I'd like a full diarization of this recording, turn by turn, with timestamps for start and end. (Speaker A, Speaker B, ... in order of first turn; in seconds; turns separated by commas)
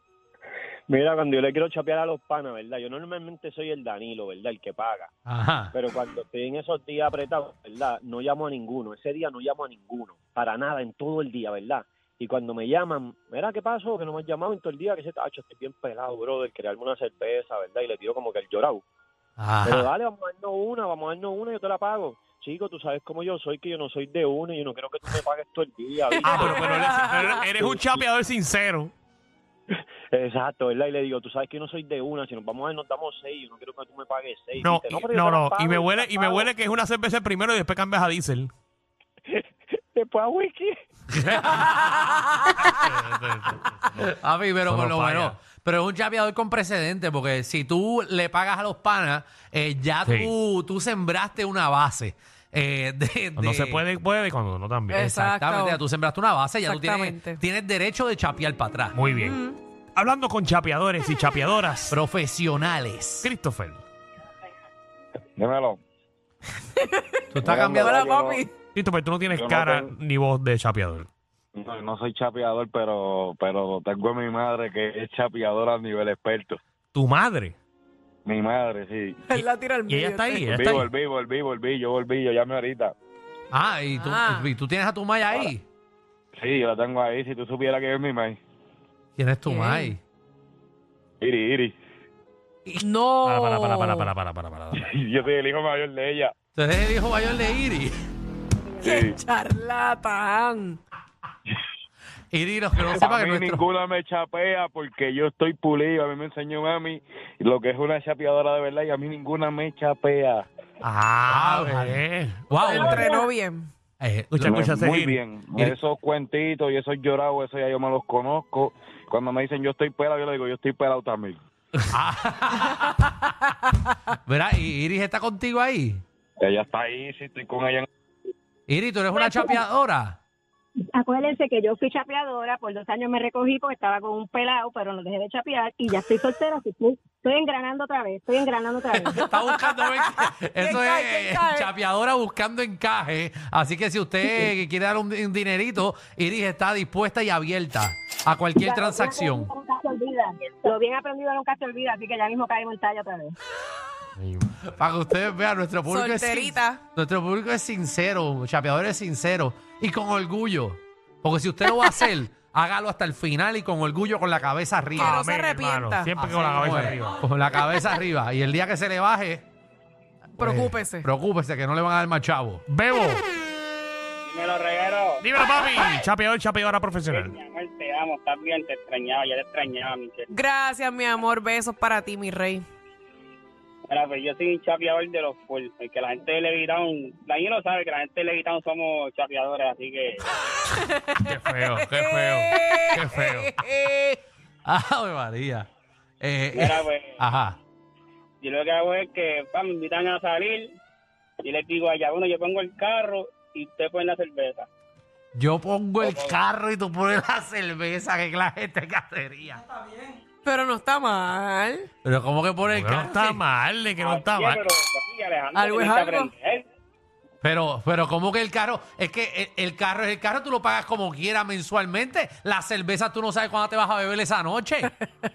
Speaker A: 0.9-5.1, Speaker B: 5.2-5.7, Speaker A: 5.7-18.8, Speaker B: 19.4-19.9, Speaker A: 19.6-28.0, Speaker C: 26.2-28.9, Speaker D: 26.3-27.0, Speaker A: 29.7-36.5, Speaker C: 34.6-38.5, Speaker A: 40.0-40.8, Speaker B: 41.1-42.5, Speaker C: 41.4-41.8, Speaker C: 42.6-44.1, Speaker B: 44.0-53.8, Speaker C: 44.6-45.4, Speaker C: 50.0-50.3, Speaker C: 53.4-55.0, Speaker D: 54.9-55.8, Speaker B: 54.9-59.0, Speaker D: 56.6-57.4, Speaker C: 58.9-59.4, Speaker D: 59.1-59.6, Speaker C: 60.0-62.0, Speaker B: 61.9-63.3, Speaker C: 63.2-63.8, Speaker E: 65.4-65.8, Speaker D: 66.8-68.5, Speaker B: 67.3-68.0, Speaker E: 67.4-68.4, Speaker C: 68.7-71.1, Speaker E: 69.3-69.9, Speaker E: 71.5-76.6, Speaker C: 76.9-77.5, Speaker E: 78.2-79.2, Speaker D: 79.3-80.7, Speaker C: 79.3-80.9, Speaker E: 80.5-82.9, Speaker B: 83.5-85.6, Speaker D: 84.0-84.5, Speaker E: 86.3-88.4, Speaker B: 89.2-90.0, Speaker D: 89.5-90.0, Speaker E: 91.2-91.7, Speaker D: 92.8-94.1, Speaker C: 93.2-94.8, Speaker E: 94.7-96.3, Speaker B: 96.5-98.0, Speaker D: 98.8-100.8, Speaker E: 98.8-99.2, Speaker B: 102.3-103.6, Speaker E: 102.9-110.5, Speaker C: 110.8-112.5, Speaker B: 111.3-113.1, Speaker D: 112.6-113.7, Speaker B: 114.0-114.7, Speaker C: 114.3-115.2, Speaker E: 114.4-121.4, Speaker B: 121.9-123.1, Speaker B: 124.2-126.0, Speaker E: 126.4-127.9, Speaker B: 128.7-130.2, Speaker F: 129.1-129.6, Speaker F: 130.8-139.1, Speaker D: 139.0-141.7, Speaker B: 139.1-149.5, Speaker F: 148.6-153.3, Speaker B: 154.6-165.2, Speaker D: 155.9-156.8, Speaker D: 164.9-166.9, Speaker C: 165.0-167.2, Speaker B: 166.2-169.4, Speaker D: 170.4-171.1, Speaker B: 170.4-172.6, Speaker C: 172.7-173.2, Speaker G: 174.2-175.2, Speaker C: 175.2-177.3, Speaker G: 177.1-180.3, Speaker D: 180.3-182.7, Speaker G: 183.9-190.2, Speaker D: 190.6-194.2, Speaker C: 191.2-193.6, Speaker B: 194.7-195.7, Speaker B: 196.2-197.6, Speaker G: 196.5-197.2, Speaker G: 198.4-200.8, Speaker G: 201.4-204.7, Speaker B: 205.3-209.6, Speaker G: 206.0-206.4, Speaker D: 210.4-211.9, Speaker B: 212.0-213.2, Speaker C: 212.6-214.7, Speaker G: 214.0-216.7, Speaker D: 215.5-216.3, Speaker B: 217.4-224.9